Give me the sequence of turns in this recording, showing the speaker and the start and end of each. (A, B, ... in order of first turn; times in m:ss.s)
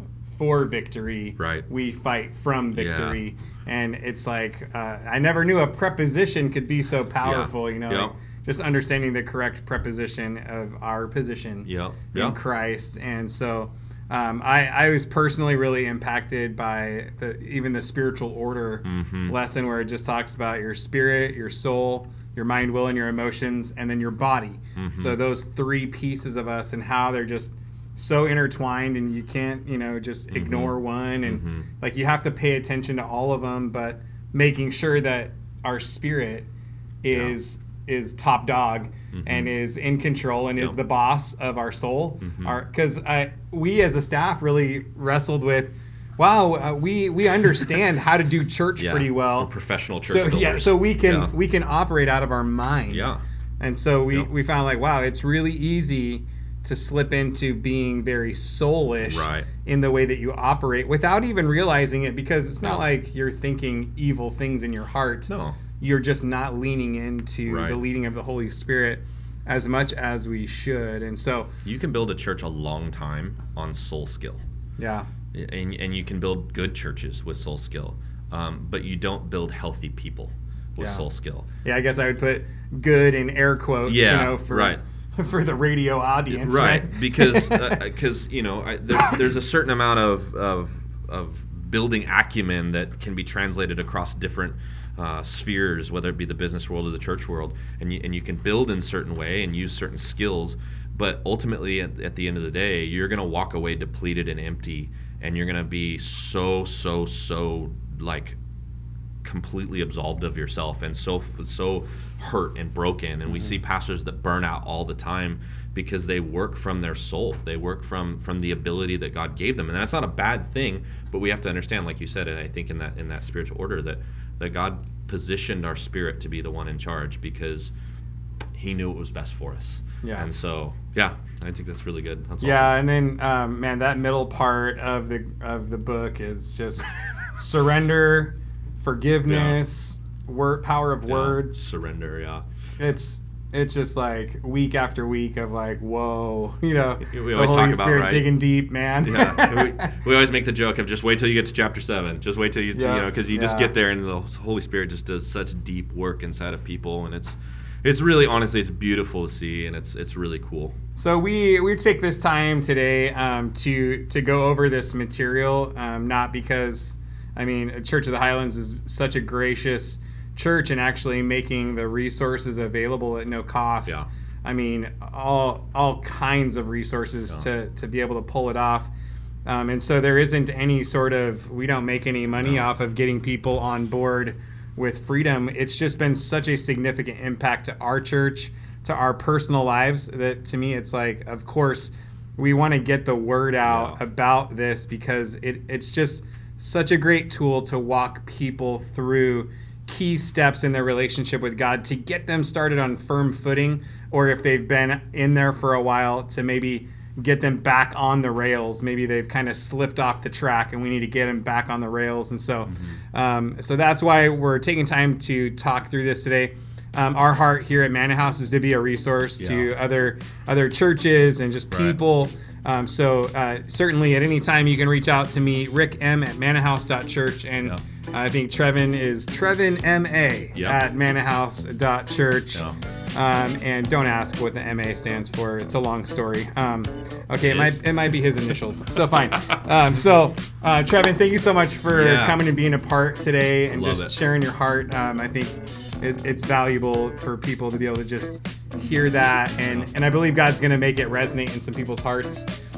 0:00.3-0:36.5 A
0:01.4-0:01.6 B
0:02.7-0:03.2 B
0:07.2-0:08.1 B
0:11.6-0:12.4 B
0:18.8-0:19.3 B
0:24.8-0:25.2 B
0:30.3-0:31.6 B
0:37.0-0:49.5 A
0:39.1-0:39.5 B
0:42.2-0:42.5 B
0:48.8-0:51.3 B
0:50.0-1:11.5 A
0:52.9-0:53.2 B
0:59.0-0:59.5 B
1:05.3-1:05.6 B
1:07.5-1:07.8 B
1:11.6-1:14.4 B
1:14.8-1:15.1 A
1:15.3-1:21.5 B
1:20.8-1:21.0 A
1:21.6-1:27.8 A
1:23.8-1:24.8 B
1:26.3-1:48.4 B
1:49.2-2:07.7 B
2:08.5-2:12.8 B
2:10.0-2:10.3 A
2:12.4-2:21.6 A
2:19.2-2:19.6 B
2:21.0-2:22.4 B
2:22.8-2:30.0 A
2:27.0-2:28.3 B
2:29.0-2:40.7 B
2:32.7-2:33.7 A
2:41.0-2:58.9 A
2:59.4-4:12.5 A
3:13.6-3:14.0 B
3:32.7-3:33.0 B
3:39.4-3:39.7 B
3:41.7-3:42.0 B
3:50.5-3:50.8 B
3:57.5-3:57.8 B
3:59.3-3:59.6 B
4:01.9-4:02.4 B
4:03.7-4:04.1 B